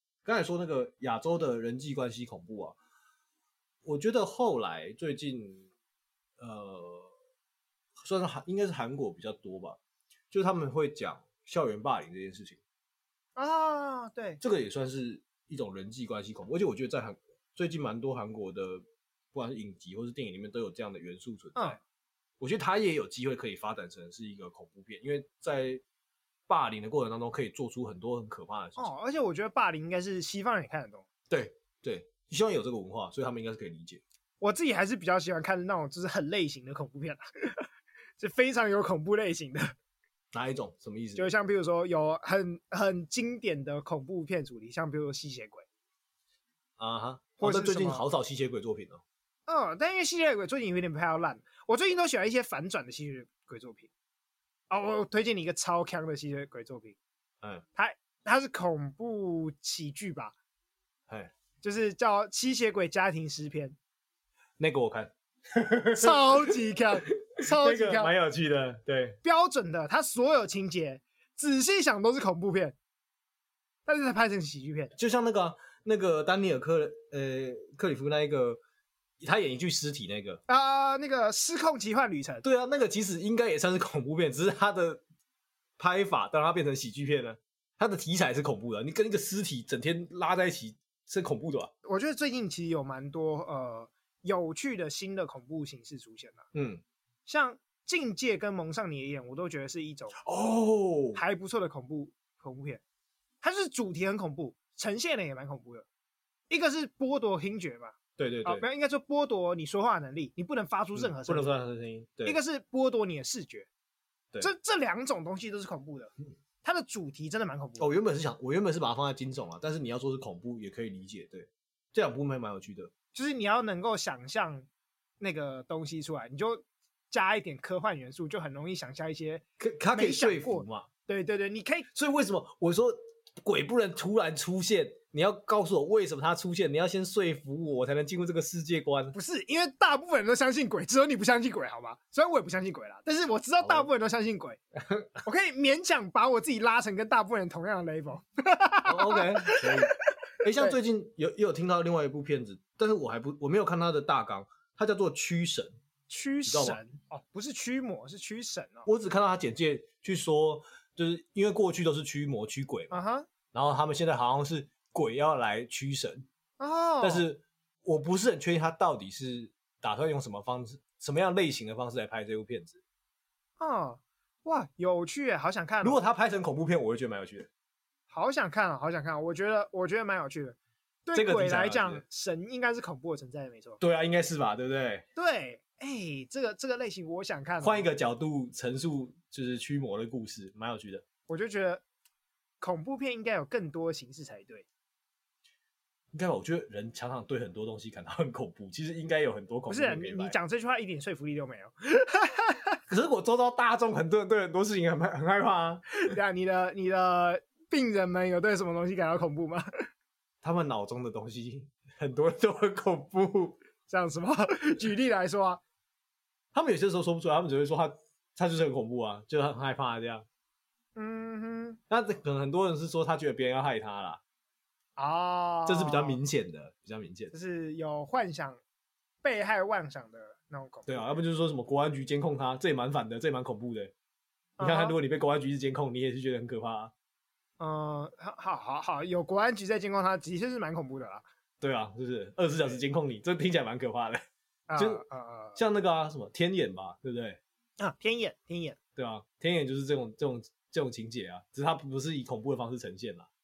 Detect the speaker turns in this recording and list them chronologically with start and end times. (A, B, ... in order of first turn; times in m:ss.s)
0:00.2-0:02.8 A
0:03.8-0:05.6 A
0:06.4-0:07.1 A
0:08.0-0:09.8 A
0:10.3-0:12.6 A
0:13.4-0:14.4 B
0:14.4-0:18.8 A
0:19.3-0:21.8 A
0:22.4-0:25.8 A
0:26.5-0:28.9 A
0:28.8-0:31.0 B
0:31.3-0:34.0 A
0:34.4-0:37.7 B
0:38.2-0:39.7 B
0:40.3-0:41.3 A
0:41.1-0:45.6 B
0:46.8-0:49.0 A
0:47.4-0:48.0 B
0:49.5-0:53.9 B
0:54.7-0:57.0 B
0:57.8-1:00.3 B
1:01.6-1:03.8 B
1:04.6-1:06.5 A
1:05.9-1:08.1 B
1:07.3-1:09.2 A
1:09.2-1:12.8 B
1:13.8-1:14.9 B
1:15.0-1:18.6 A
1:19.2-1:20.4 A
1:20.5-1:22.4 B
1:22.4-1:25.0 A
1:25.8-1:31.7 A
1:31.8-1:36.4 B
1:36.5-1:36.8 A
1:37.3-1:40.2 B
1:40.2-1:41.2 A
1:41.1-1:42.8 B
1:43.4-1:45.8 B
1:46.5-1:51.5 B
1:48.2-1:48.6 A
1:51.0-1:52.4 A
1:52.2-1:53.7 B
1:54.4-1:57.9 B
1:57.8-2:02.9 A
2:03.1-2:04.7 B
2:05.2-2:09.4 B
2:09.6-2:10.9 A
2:09.9-2:11.9 B
2:11.9-2:19.2 A
2:19.1-2:24.6 B
2:23.6-2:23.9 A
2:24.8-2:25.1 A
2:25.2-2:30.8 B
2:28.8-2:35.7 A
2:36.1-2:38.9 B
2:36.4-2:36.8 A
2:38.8-2:42.9 A
2:42.9-2:43.3 B
2:43.5-2:46.3 A
2:46.6-2:47.2 B
2:47.0-2:52.8 A
2:53.6-2:56.0 B
2:55.8-2:57.5 A
2:58.1-3:03.8 B
3:01.1-3:02.0 A
3:03.8-3:05.0 A
3:05.2-3:07.9 B
3:07.6-3:11.0 A
3:11.3-3:11.8 B
3:12.6-3:14.6 B
3:16.1-3:20.4 A
3:19.7-3:22.8 B
3:22.9-3:26.0 A
3:26.0-3:29.7 B
3:30.4-3:33.6 A
3:33.9-3:35.6 B
3:36.5-3:40.2 A
3:41.0-3:41.8 B
3:41.9-3:44.2 A
3:45.0-3:46.2 B
3:45.6-3:47.3 A
3:47.3-3:48.6 B
3:49.2-3:51.1 B
3:50.9-3:53.9 A
3:54.6-3:55.0 B
3:54.6-3:56.9 A
3:57.6-4:01.2 B
4:01.6-4:04.2 A
4:04.7-4:05.6 B
4:04.8-4:05.0 A
4:05.6-4:07.4 A
4:07.8-4:08.8 B
4:09.0-4:13.3 A